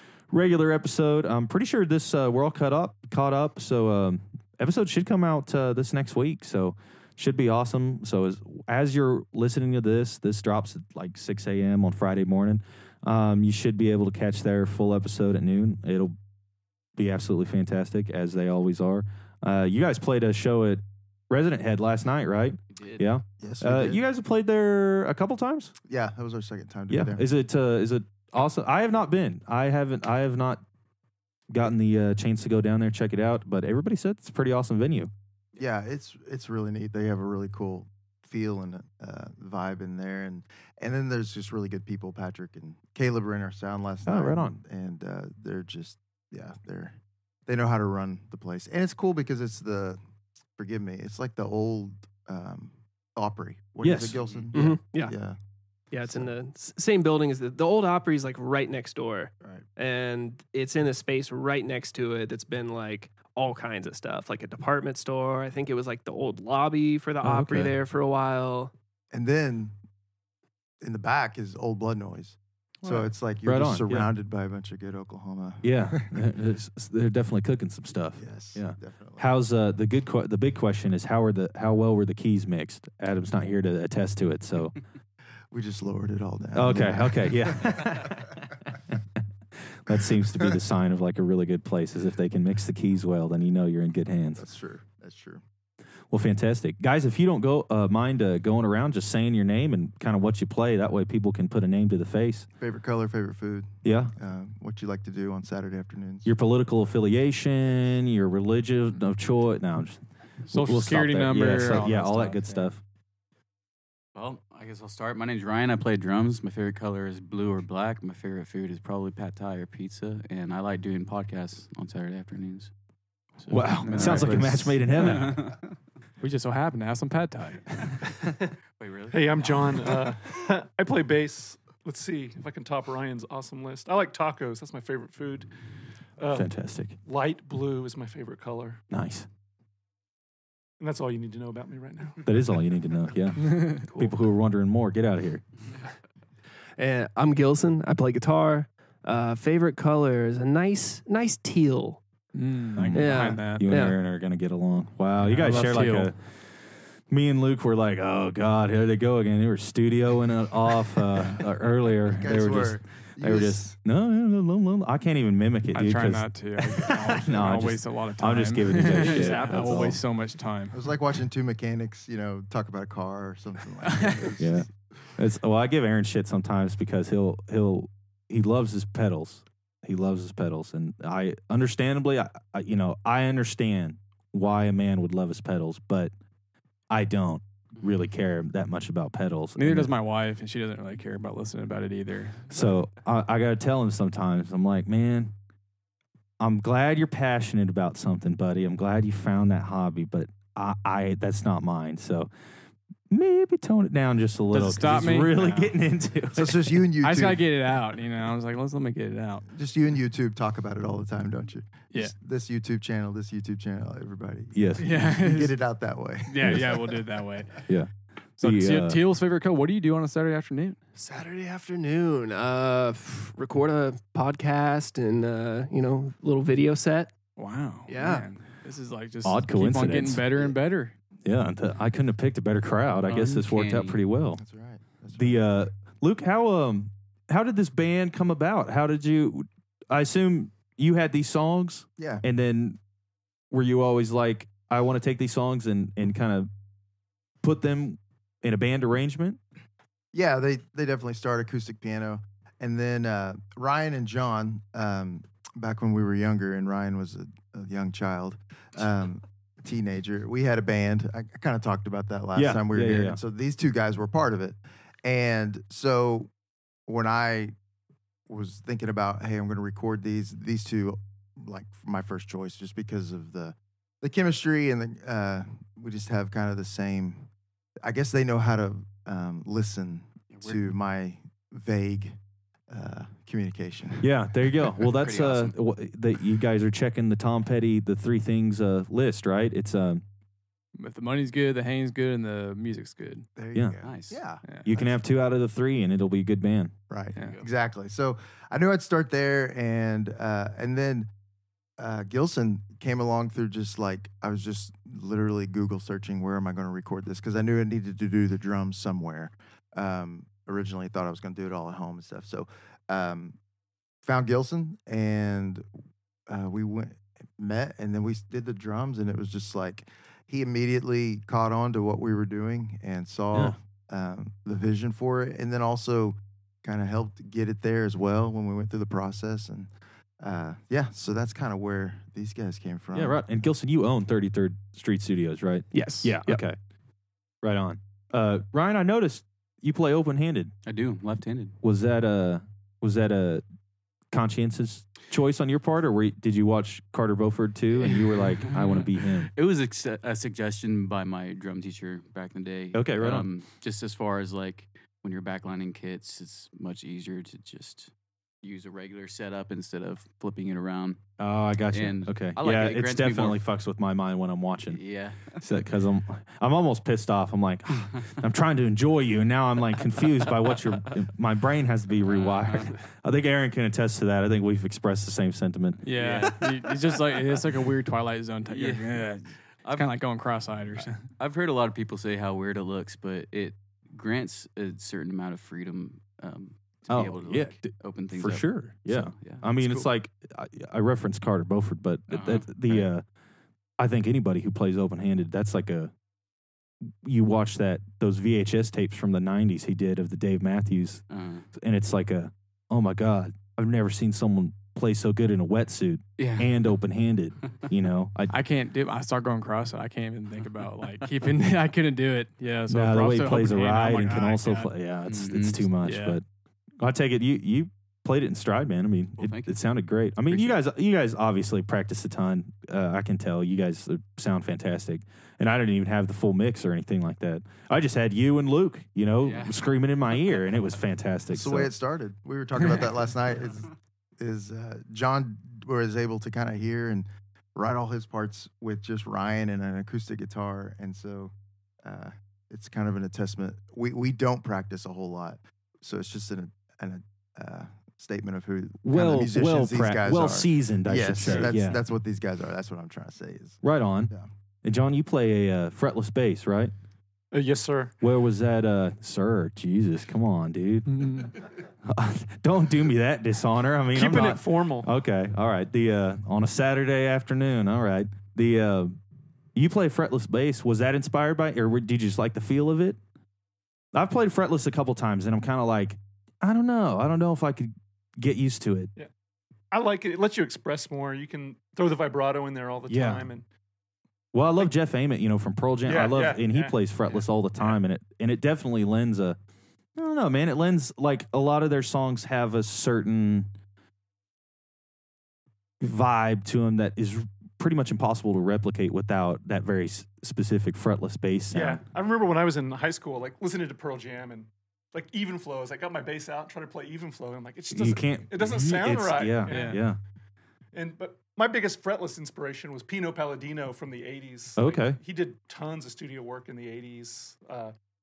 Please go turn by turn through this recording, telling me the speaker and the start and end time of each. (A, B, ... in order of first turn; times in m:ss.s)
0:00.3-0:16.1 A
0:17.0-0:25.7 A
0:22.7-0:23.1 B
0:23.4-0:24.0 C
0:25.8-0:27.2 C
0:26.9-0:30.6 A
0:31.5-0:35.1 A
0:35.6-0:50.0 C
0:44.0-0:44.6 A
0:50.6-0:55.4 C
0:53.8-0:54.2 A
0:54.5-0:55.1 D
0:55.9-1:08.7 D
0:56.0-0:56.3 C
1:07.2-1:07.8 A
1:09.1-1:09.7 C
1:10.8-1:16.2 C
1:12.8-1:14.1 A
1:15.6-1:24.8 A
1:18.2-1:19.2 C
1:25.5-1:28.3 C
1:26.5-1:29.0 A
1:29.6-1:34.4 A
1:29.9-1:30.6 C
1:34.4-1:35.4 C
1:36.1-1:42.5 A
1:42.6-1:46.3 C
1:43.8-1:44.1 A
1:46.2-1:52.8 A
1:50.5-1:52.7 E
1:54.1-2:02.8 B
2:03.3-2:05.7 B
2:03.5-2:05.5 A
2:03.9-2:05.4 E
2:06.2-2:08.2 E
2:08.8-2:09.9 B
2:09.1-2:15.5 F
2:16.2-2:16.5 F
2:16.3-2:17.0 A
2:17.0-2:18.8 F
2:18.9-2:19.3 A
2:20.8-2:22.3 F
2:22.2-2:25.4 A
2:26.8-2:32.0 D
2:32.3-2:33.7 E
2:32.8-2:36.6 A
2:32.9-2:34.0 D
2:35.2-2:36.1 E
2:37.1-2:50.0 A
2:42.1-2:43.8 C
2:45.7-2:50.8 E
2:49.0-2:49.9 C
2:50.7-2:54.7 C
2:53.8-2:54.3 E
2:54.4-3:06.1 A
3:06.9-3:09.9 A
3:09.6-3:12.6 E
3:12.5-3:15.3 A
3:16.4-3:22.3 A
3:23.1-3:26.7 A
3:24.5-3:25.7 E
3:26.3-3:27.4 C
3:27.0-3:29.4 E
3:29.5-3:36.9 C
3:34.5-3:34.9 A
3:34.8-3:35.6 E
3:36.2-3:37.6 E
3:37.7-3:39.0 A
3:38.4-3:40.8 E
3:41.0-3:47.1 D
3:47.4-3:50.9 E
3:47.9-3:48.3 D
3:49.2-3:50.2 A
3:51.2-3:54.4 A
3:53.1-3:53.4 E
3:53.2-3:54.0 B
3:54.4-3:55.4 C
3:55.2-4:02.8 A
4:02.0-4:02.2 C
4:03.5-4:06.5 A
4:07.4-4:09.4 A
4:10.1-4:26.3 C
4:22.3-4:23.2 A
4:26.9-4:27.5 C
4:28.3-4:37.3 C
4:37.8-4:42.2 C
4:40.3-4:40.6 B
4:42.7-4:44.1 C
4:44.0-4:50.0 A
4:44.9-4:45.5 B
4:50.7-4:53.2 E
4:53.4-4:55.0 C
4:53.5-4:53.8 A
4:53.8-4:54.2 B
4:54.6-4:56.7 A
4:56.9-5:01.1 C
4:57.2-4:57.4 B
5:01.8-5:13.4 C
5:14.0-5:15.6 C
5:16.3-5:33.2 C
5:23.3-5:23.6 A
5:32.9-5:36.6 A
5:35.7-5:36.4 D
5:37.4-5:40.5 A
5:40.6-5:41.6 B
5:41.6-5:43.4 A
5:44.1-5:49.3 A
5:47.7-6:01.0 B
5:52.7-5:53.3 A
6:01.2-6:16.3 A
6:01.7-6:03.4 B
6:04.7-6:05.4 B
6:12.1-6:12.8 B
6:15.8-6:21.1 E
6:15.9-6:16.5 B
6:18.5-6:20.0 B
6:20.7-6:29.9 B
6:26.9-6:33.0 A
6:32.1-6:32.9 B
6:33.8-6:35.9 A
6:36.9-6:48.3 A
6:41.1-6:41.4 B
6:46.2-6:46.5 B
6:48.3-6:54.7 E
6:52.7-6:56.2 A
6:55.0-6:55.6 B
6:55.8-6:56.2 E
6:56.8-7:11.7 A
6:59.2-6:59.6 B
7:00.3-7:00.6 B
7:09.2-7:10.4 B
7:11.3-7:34.3 C
7:28.8-7:31.8 A
7:33.6-7:34.1 A
7:34.6-7:36.7 A
7:37.3-7:37.9 F
7:38.0-7:49.0 A
7:40.9-7:41.3 E
7:43.9-7:44.9 F
7:49.5-7:53.0 A
7:53.9-7:58.9 A
7:59.7-8:03.4 F
8:02.9-8:03.3 A
8:04.3-8:09.4 A
8:05.8-8:07.8 F
8:10.0-8:13.5 A
8:15.8-8:21.8 A
8:21.5-8:29.8 F
8:27.7-8:30.0 A
8:29.5-8:29.8 E
8:30.7-8:37.7 F
8:34.6-8:35.0 A